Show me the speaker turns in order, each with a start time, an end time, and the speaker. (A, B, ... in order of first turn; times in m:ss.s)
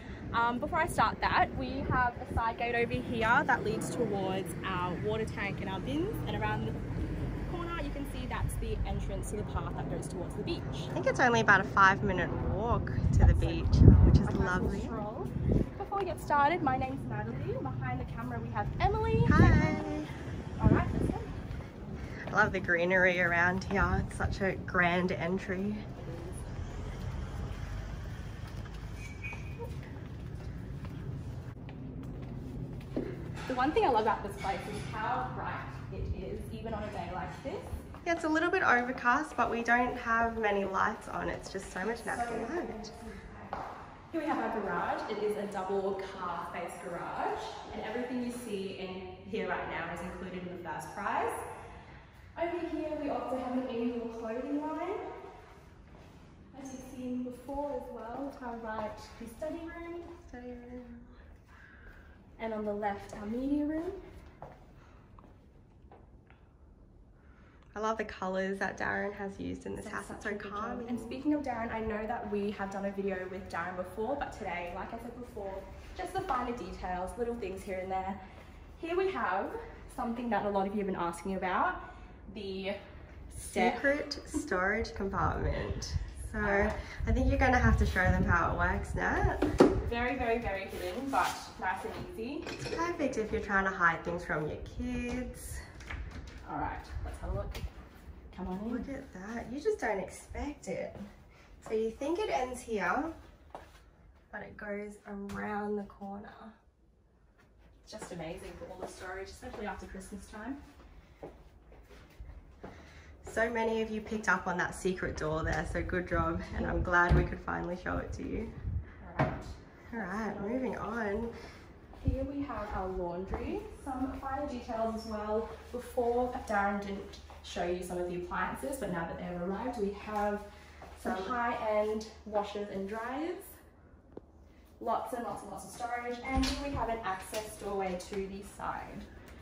0:00.3-0:06.8 A
0:07.5-0:10.9 A
0:10.9-0:15.0 B
0:13.2-0:20.0 A
0:19.3-0:20.1 B
0:20.6-0:21.4 A
0:22.3-0:25.8 B
0:26.0-0:26.4 A
0:33.4-0:37.8 A
0:38.0-0:42.8 B
0:42.0-0:51.4 A
0:52.3-0:55.1 A
0:56.5-1:00.2 A
1:00.3-1:01.2 B
1:02.4-1:04.0 A
1:07.7-1:11.2 B
1:09.7-1:18.2 A
1:18.8-1:24.5 A
1:23.4-1:29.5 B
1:26.4-1:26.8 A
1:29.8-1:32.6 A
1:32.6-1:35.6 B
1:36.4-1:37.7 A
1:38.3-1:38.9 A
1:38.6-1:41.1 B
1:41.6-1:43.1 B
1:44.3-1:46.5 B
1:47.8-1:50.6 A
1:53.2-1:58.5 B
1:56.5-1:56.8 A
1:59.0-2:00.7 A
1:59.9-2:01.4 B
2:02.0-2:13.6 A
2:11.0-2:11.4 B
2:14.8-2:19.1 A